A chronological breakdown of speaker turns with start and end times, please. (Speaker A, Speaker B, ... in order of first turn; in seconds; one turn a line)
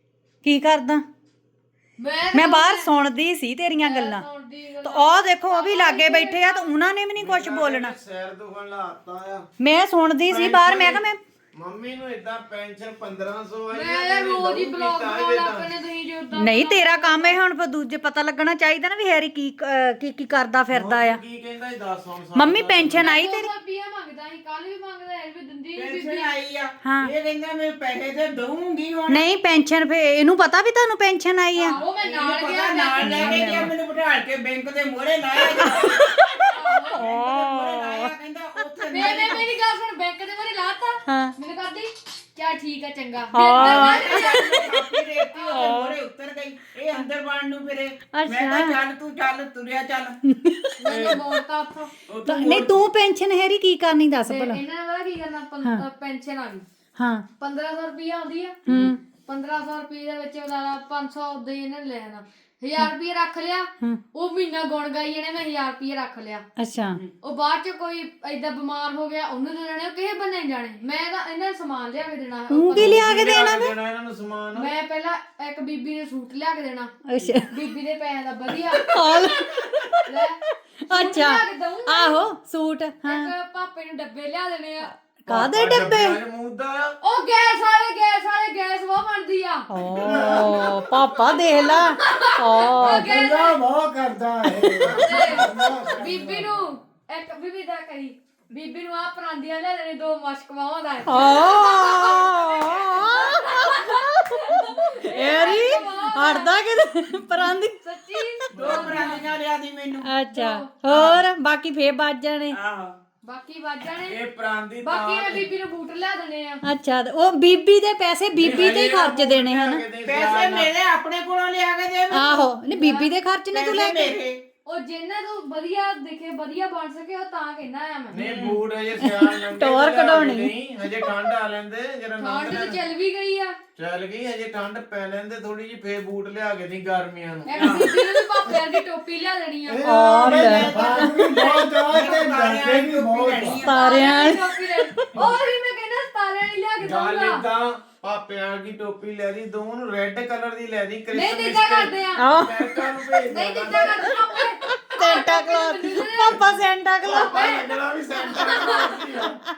Speaker A: 0.4-1.0
Speaker B: 2.0-2.9
Speaker A: 2.3-4.2
Speaker B: 3.8-6.7
Speaker A: 4.8-7.9
Speaker C: 7.2-9.5
Speaker A: 9.6-11.2
Speaker C: 10.3-11.0
Speaker C: 11.6-15.7
Speaker B: 13.7-17.4
Speaker A: 16.4-21.2
Speaker C: 20.7-23.1
Speaker A: 22.3-23.5
Speaker B: 23.0-26.3
Speaker D: 25.8-29.4
Speaker A: 26.8-27.1
Speaker A: 29.1-31.8
Speaker B: 31.6-33.6
Speaker D: 31.8-36.1
Speaker A: 33.0-33.7
Speaker A: 35.4-36.2
Speaker B: 36.5-37.1
Speaker D: 36.9-39.4
Speaker A: 37.0-38.1
Speaker B: 38.9-44.6
Speaker A: 41.1-41.3
Speaker A: 43.3-44.6
Speaker D: 43.6-50.2
Speaker B: 45.3-45.7
Speaker A: 45.5-46.0
Speaker A: 48.1-48.8
Speaker A: 50.2-51.1
Speaker B: 50.8-51.9
Speaker D: 50.9-51.2
Speaker D: 52.1-52.8
Speaker A: 52.2-54.6
Speaker B: 54.3-56.6
Speaker A: 57.0-57.2
Speaker B: 57.4-58.6
Speaker A: 58.6-59.0
Speaker D: 58.7-58.9
Speaker B: 59.2-66.4
Speaker A: 66.6-67.0
Speaker B: 67.2-73.0
Speaker A: 72.5-73.7
Speaker C: 72.7-74.7
Speaker B: 74.5-76.9
Speaker A: 77.1-77.5
Speaker B: 77.5-79.5
Speaker A: 78.8-80.1
Speaker B: 80.1-82.3
Speaker A: 80.9-83.3
Speaker B: 83.0-84.9
Speaker A: 85.2-86.2
Speaker C: 85.3-87.0
Speaker B: 87.0-90.5
Speaker A: 89.7-93.0
Speaker E: 90.0-90.5
Speaker B: 91.9-93.6
Speaker E: 92.8-96.5
Speaker C: 94.9-95.3
Speaker B: 94.9-106.6
Speaker A: 101.1-107.8
Speaker B: 107.3-109.3
Speaker C: 108.5-109.2
Speaker D: 108.5-110.1
Speaker A: 110.0-112.6
Speaker B: 110.3-111.1
Speaker D: 110.9-111.2
Speaker D: 112.5-113.0
Speaker B: 113.2-114.2
Speaker C: 114.1-115.5
Speaker B: 114.8-116.6
Speaker A: 116.6-119.8
Speaker C: 118.4-120.7
Speaker D: 120.0-122.5
Speaker A: 122.1-124.2
Speaker B: 122.8-123.1
Speaker D: 123.5-124.4
Speaker B: 124.7-128.2
Speaker C: 128.1-132.8
Speaker D: 128.1-128.6
Speaker A: 129.0-130.5
Speaker B: 132.2-133.5
Speaker C: 133.8-137.8
Speaker B: 137.4-139.8
Speaker D: 137.5-137.9
Speaker E: 139.7-143.6
Speaker A: 139.8-141.1
Speaker D: 140.2-143.7
Speaker B: 143.6-147.4
Speaker A: 143.6-145.2
Speaker C: 146.8-154.0
Speaker B: 151.1-152.3
Speaker A: 152.2-152.7
Speaker B: 153.3-156.5
Speaker A: 153.9-154.3
Speaker A: 154.9-157.4
Speaker C: 157.0-159.4
Speaker B: 157.2-159.0